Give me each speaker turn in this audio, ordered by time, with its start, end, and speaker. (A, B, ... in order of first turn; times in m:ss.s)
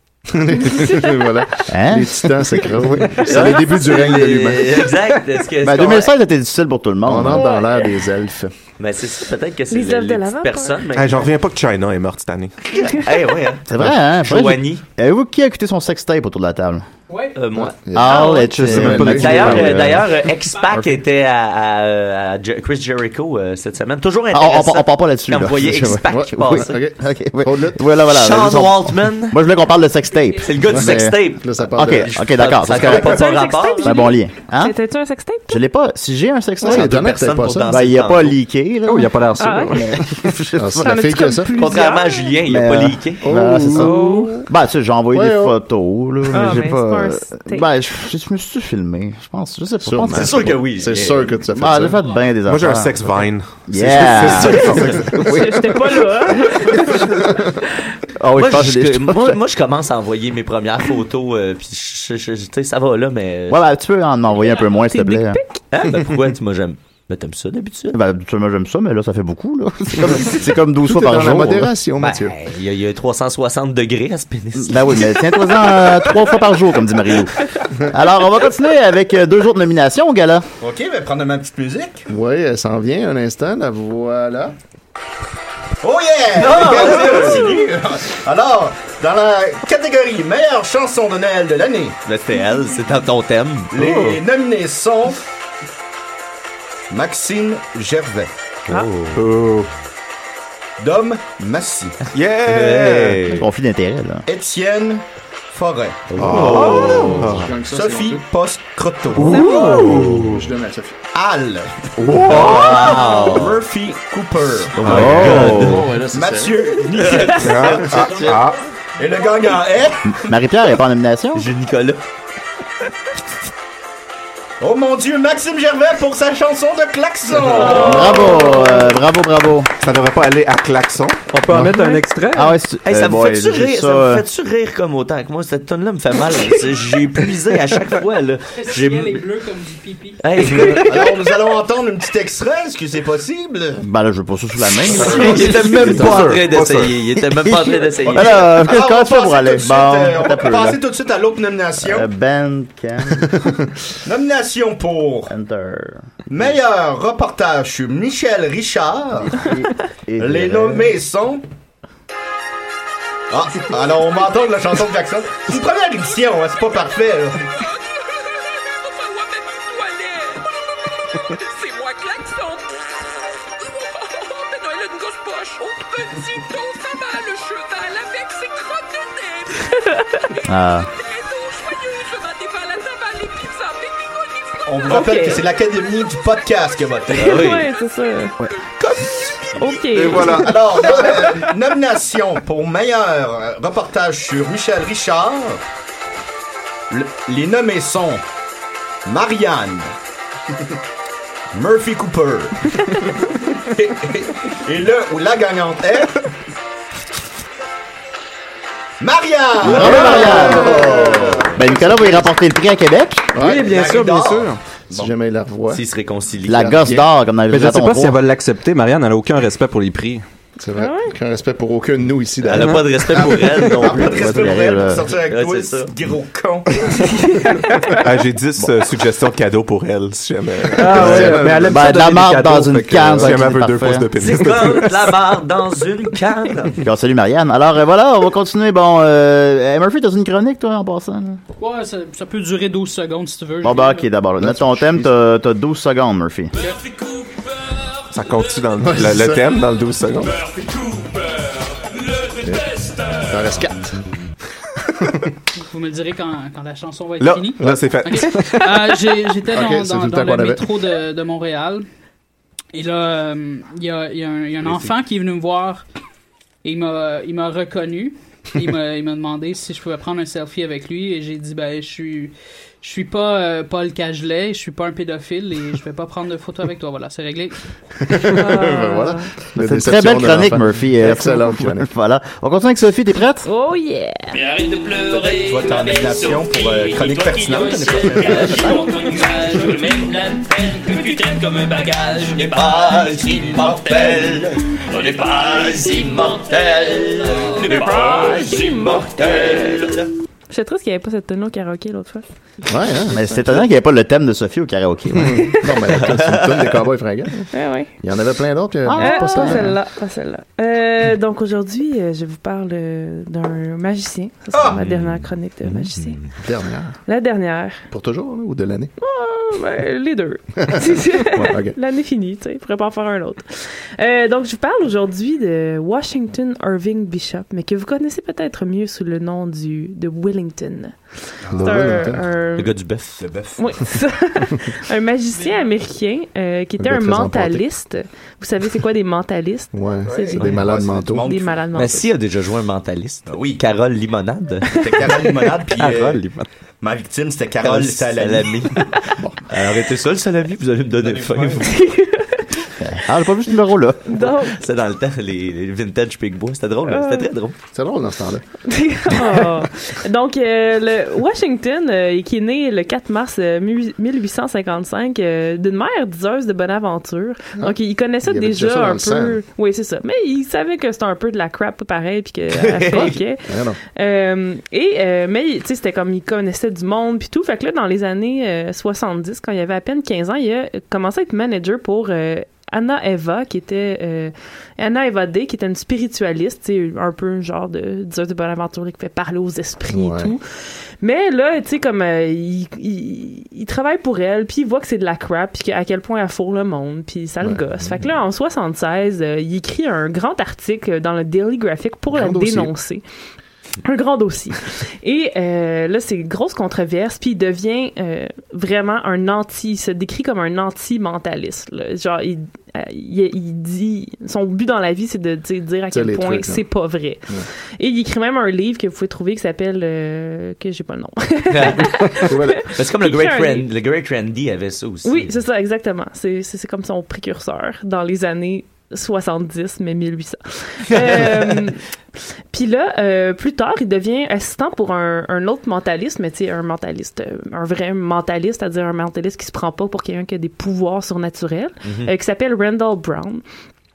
0:00.3-0:04.9 A
0:00.6-0:01.1 B
0:01.7-0:02.3 C
0:03.2-0:06.1 D
0:05.6-0:07.5 C
0:07.0-0:08.5 A
0:07.3-0:07.9 B
0:08.8-0:11.3 D
0:09.7-0:10.8 B
0:10.9-0:12.6 E
0:12.7-0:14.8 D
0:13.7-0:16.8 C
0:17.1-0:17.4 F
0:17.3-0:17.8 D
0:17.5-0:19.8 A
0:17.9-0:20.0 C
0:18.1-0:18.5 B
0:18.5-0:19.8 G
0:18.8-0:26.8 D
0:20.4-0:20.9 F
0:24.3-0:31.2 C
0:26.1-0:27.8 A
0:28.1-0:29.4 D
0:30.4-0:34.0 D
0:30.7-0:32.1 A
0:31.8-0:33.3 C
0:32.8-0:35.6 B
0:33.8-0:34.8 C
0:35.5-0:37.0 C
0:36.6-0:37.9 A
0:36.7-0:38.4 D
0:37.7-0:40.9 C
0:38.8-0:39.9 G
0:39.4-0:40.0 B
0:40.5-0:41.5 A
0:40.8-0:42.3 B
0:41.6-0:43.2 D
0:42.5-0:44.0 C
0:43.2-0:44.4 A
0:43.8-0:44.5 B
0:44.5-0:50.5 C
0:45.1-0:45.6 A
0:46.3-0:47.7 B
0:49.8-0:52.0 A
0:50.1-0:51.4 D
0:51.5-0:53.1 C
0:52.0-0:52.3 F
0:52.4-0:55.1 E
0:53.7-0:55.5 C
0:54.2-0:54.7 D
0:55.1-0:57.1 B
0:58.2-0:59.4 C
0:58.4-1:03.6 D
1:03.5-1:05.4 C
1:04.7-1:05.6 B
1:05.7-1:08.0 D
1:07.9-1:11.7 C
1:10.8-1:12.3 A
1:12.0-1:15.1 D
1:14.6-1:20.4 C
1:20.6-1:22.1 H
1:22.1-1:24.5 A
1:25.8-1:32.0 H
1:26.4-1:27.5 D
1:32.0-1:33.8 D
1:33.7-1:35.2 H
1:33.8-1:34.2 E
1:36.9-1:38.3 H
1:38.7-1:39.2 D
1:39.1-1:39.7 E
1:40.8-1:42.0 H
1:42.0-1:43.4 D
1:42.1-1:43.3 E
1:43.3-1:44.2 C
1:44.3-1:46.8 H
1:46.1-1:47.4 D
1:46.2-1:47.5 E
1:46.3-1:48.2 A
1:47.6-1:49.7 H
1:49.2-1:50.4 E
1:49.3-1:49.8 B
1:49.5-1:51.0 A
1:49.6-1:50.0 G
1:51.1-1:58.4 H
1:52.0-1:52.8 E
1:52.3-1:53.5 D
1:52.3-1:53.3 C
1:54.8-1:55.9 D
1:54.8-1:55.6 E
1:54.8-1:55.9 C
1:55.0-1:55.8 G
1:56.9-1:58.4 D
1:57.4-1:58.6 E
1:59.0-2:00.3 H
2:00.1-2:01.5 C
2:01.3-2:02.0 D
2:04.6-2:08.6 H
2:07.5-2:08.8 B
2:07.6-2:09.7 C
2:09.8-2:11.2 E
2:11.3-2:12.5 G
2:12.3-2:14.2 C
2:12.8-2:19.2 D
2:18.5-2:20.7 F
2:20.2-2:21.1 D
2:20.6-2:23.8 H
2:23.8-2:26.4 C
2:24.9-2:25.5 H
2:25.0-2:28.5 D
2:25.6-2:27.0 E
2:27.2-2:30.8 C
2:28.0-2:32.1 H
2:31.8-2:33.4 C
2:34.0-2:35.3 H
2:35.3-2:36.1 C
2:36.3-2:39.5 H
2:39.3-2:40.9 C
2:40.2-2:41.4 H
2:43.3-2:47.5 H
2:48.8-2:50.4 I
2:51.5-2:52.7 I
2:54.0-2:59.5 I
3:00.4-3:00.9 C
3:02.1-3:04.1 I
3:04.6-3:07.5 H
3:04.9-3:05.4 B
3:07.1-3:07.7 D
3:07.2-3:08.4 B
3:09.5-3:10.6 B
3:10.0-3:10.6 E
3:10.1-3:15.6 H
3:16.9-3:18.2 H
3:19.0-3:19.9 H
3:21.5-3:26.2 H
3:29.0-3:31.8 H
3:29.6-3:33.3 C
3:29.8-3:31.8 A
3:33.3-3:33.8 A
3:33.4-3:34.6 G
3:33.5-3:35.1 H
3:34.9-3:35.8 A
3:35.7-3:36.9 D
3:36.5-3:38.2 C
3:36.5-3:37.0 A
3:37.5-3:40.2 G
3:40.6-3:43.3 A
3:40.8-3:41.1 B
3:42.4-3:44.5 D
3:43.2-3:47.0 H
3:44.0-3:45.0 C
3:45.1-3:45.9 D
3:48.0-3:51.4 E
3:50.8-3:51.9 A
3:50.8-3:53.4 G
3:51.0-3:54.1 C
3:53.1-3:55.1 E
3:54.2-3:56.8 D
3:56.8-4:01.4 C
4:01.6-4:04.1 F
4:03.6-4:06.5 C
4:04.4-4:05.1 A
4:08.1-4:10.4 E
4:08.8-4:09.5 A
4:12.4-4:14.0 A
4:15.6-4:21.8 F
4:17.2-4:18.6 E
4:17.6-4:18.0 A
4:19.5-4:20.7 A
4:22.7-4:25.8 F
4:26.6-4:37.6 F
4:38.0-4:41.9 A
4:38.2-4:39.3 B
4:39.6-4:43.4 C
4:43.4-4:44.4 B
4:45.1-4:48.9 H
4:48.2-5:00.1 D
4:53.6-4:54.3 H
4:57.6-4:59.9 B
5:00.5-5:02.2 B
5:02.7-5:03.2 A
5:03.1-5:05.5 C
5:05.1-5:07.5 A
5:06.0-5:06.7 D
5:07.5-5:07.9 B
5:08.0-5:09.7 A
5:08.8-5:09.7 C
5:09.0-5:16.2 B
5:14.5-5:14.8 H
5:14.8-5:15.2 D
5:16.4-5:16.9 A
5:17.1-5:17.8 B
5:17.9-5:18.9 A
5:19.0-5:30.9 B
5:20.6-5:21.8 A
5:31.5-5:32.1 H
5:31.5-5:32.2 A
5:31.6-5:32.7 B
5:32.6-5:33.2 D
5:33.2-5:33.6 H
5:33.6-5:40.6 B
5:35.3-5:35.7 F
5:36.8-5:37.6 A
5:39.7-5:41.3 A
5:40.1-5:41.6 H
5:41.2-5:42.1 B
5:41.7-5:44.8 D
5:43.3-5:43.6 H
5:44.8-5:46.2 H
5:45.8-5:46.3 D
5:46.8-5:48.6 H
5:47.6-5:48.9 D
5:49.5-5:51.8 D
5:51.0-5:51.7 H
5:51.7-5:52.4 B
5:52.8-5:54.0 C
5:54.1-5:54.6 B
5:54.2-5:57.6 D
5:56.8-5:57.3 B
5:57.7-5:58.4 A
5:58.7-6:30.4 B
6:07.6-6:09.4 A
6:12.5-6:13.2 D
6:13.5-6:13.8 A
6:29.9-6:30.3 A
6:31.0-6:43.0 B
6:42.1-6:42.7 A
6:43.8-7:03.7 B
6:55.9-6:56.6 A
7:01.5-7:05.4 D
7:02.1-7:02.7 A
7:05.0-7:11.8 B
7:12.5-7:23.4 B
7:21.8-7:22.1 D